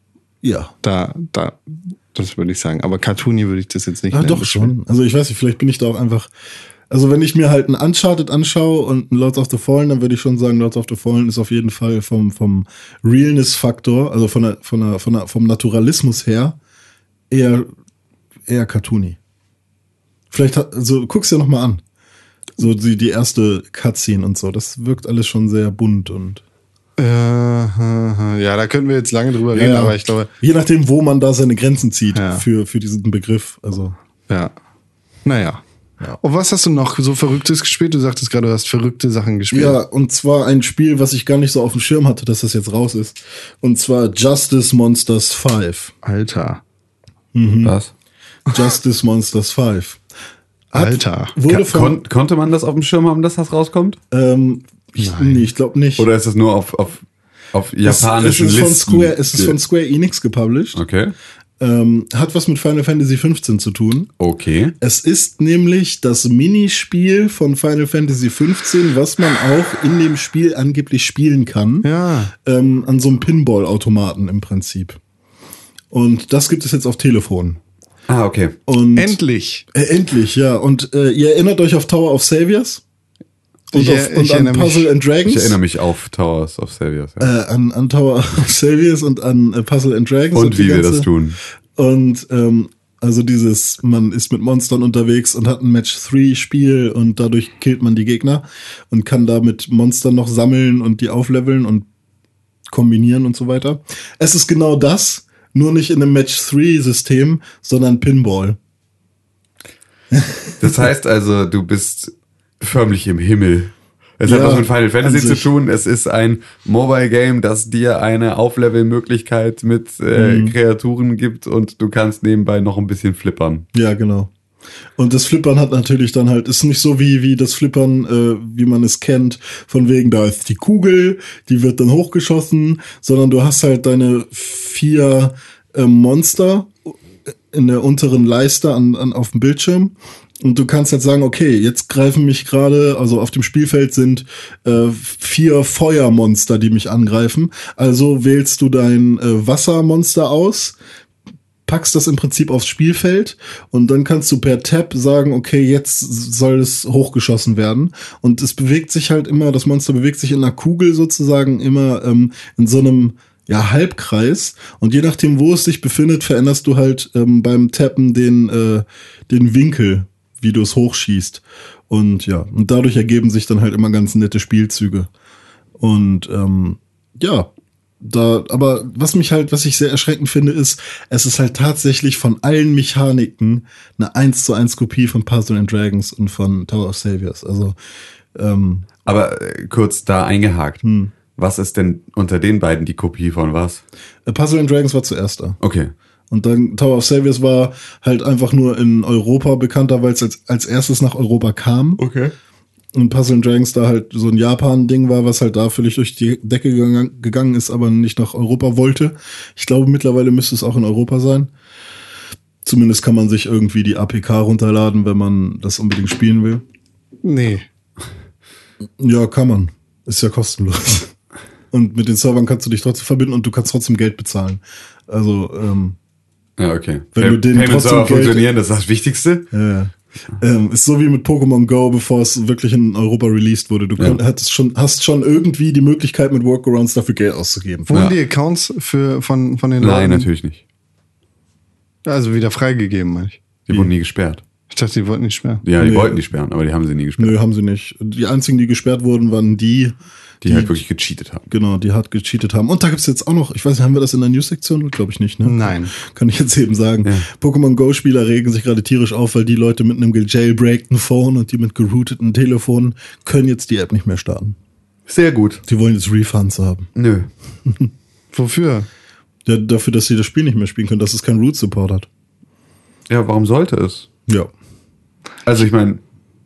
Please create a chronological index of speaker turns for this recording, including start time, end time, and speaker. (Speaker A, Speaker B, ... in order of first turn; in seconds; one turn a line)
Speaker A: 0.4-0.7
Speaker B: 0.8-4.7
Speaker A: 4.1-6.3
Speaker A: 6.9-16.6
Speaker A: 17.3-17.7
Speaker A: 18.5-19.2
Speaker A: 20.3-21.8
Speaker A: 22.6-26.4
Speaker B: 27.0-30.3
Speaker A: 29.5-34.0
Speaker B: 32.1-32.4
Speaker B: 35.2-35.6
Speaker B: 36.2-39.8
Speaker A: 39.5-45.9
Speaker B: 46.0-46.6
Speaker A: 47.3-47.7
Speaker C: 47.6-47.9
Speaker A: 48.5-50.0
Speaker A: 50.7-52.0
Speaker B: 50.7-51.3
Speaker C: 51.5-54.0
Speaker A: 54.1-56.0
Speaker B: 55.0-55.4
Speaker C: 56.0-57.0
Speaker C: 57.5-59.5
Speaker A: 57.8-60.8
Speaker C: 60.7-61.1
Speaker A: 61.6-64.1
Speaker C: 64.2-64.7
Speaker A: 64.8-75.0
Speaker B: 71.8-72.3
Speaker A: 75.9-77.6
Speaker C: 78.1-78.5
Speaker A: 78.7-79.2
Speaker B: 78.9-79.6
Speaker A: 79.7-82.8
Speaker B: 83.7-84.9
Speaker A: 83.7-85.6
Speaker C: 85.2-87.3
Speaker A: 87.2-91.1
Speaker C: 90.3-91.4
Speaker A: 91.8-101.9
Speaker A: 102.7-108.6
Speaker A: 110.1-110.7
Speaker C: 110.6-123.7
Speaker A: 114.2-115.5
Speaker A: 120.1-120.5
Speaker A: 123.7-124.3
Speaker A: 125.0-136.9
Speaker A: 137.5-150.8
Speaker A: 151.7-175.1
Speaker A: 175.8-177.5
Speaker A: 178.0-187.8
Speaker A: 188.3-188.9
Speaker C: 189.1-193.8
Speaker A: 190.8-191.1
Speaker A: 194.2-195.6
Speaker C: 195.6-195.9
Speaker A: 196.3-202.0
Speaker C: 202.0-202.3
Speaker A: 202.9-211.5
Speaker A: 212.6-216.6
Speaker B: 217.2-217.6
Speaker A: 219.0-221.1
Speaker A: 221.7-226.0
Speaker C: 226.6-229.5
Speaker A: 227.1-228.5
Speaker A: 229.5-238.0
Speaker B: 237.9-240.3
Speaker C: 239.8-240.6
Speaker B: 242.1-243.4
Speaker C: 243.7-244.4
Speaker B: 244.7-245.6
Speaker C: 245.6-247.4
Speaker A: 245.8-246.2
Speaker A: 247.2-250.8
Speaker C: 250.4-251.5
Speaker A: 251.5-264.6
Speaker B: 255.4-255.9
Speaker C: 265.1-265.6
Speaker A: 265.6-266.9
Speaker C: 266.9-267.3
Speaker B: 268.3-268.9
Speaker A: 269.4-272.1
Speaker C: 273.1-274.1
Speaker C: 275.4-276.0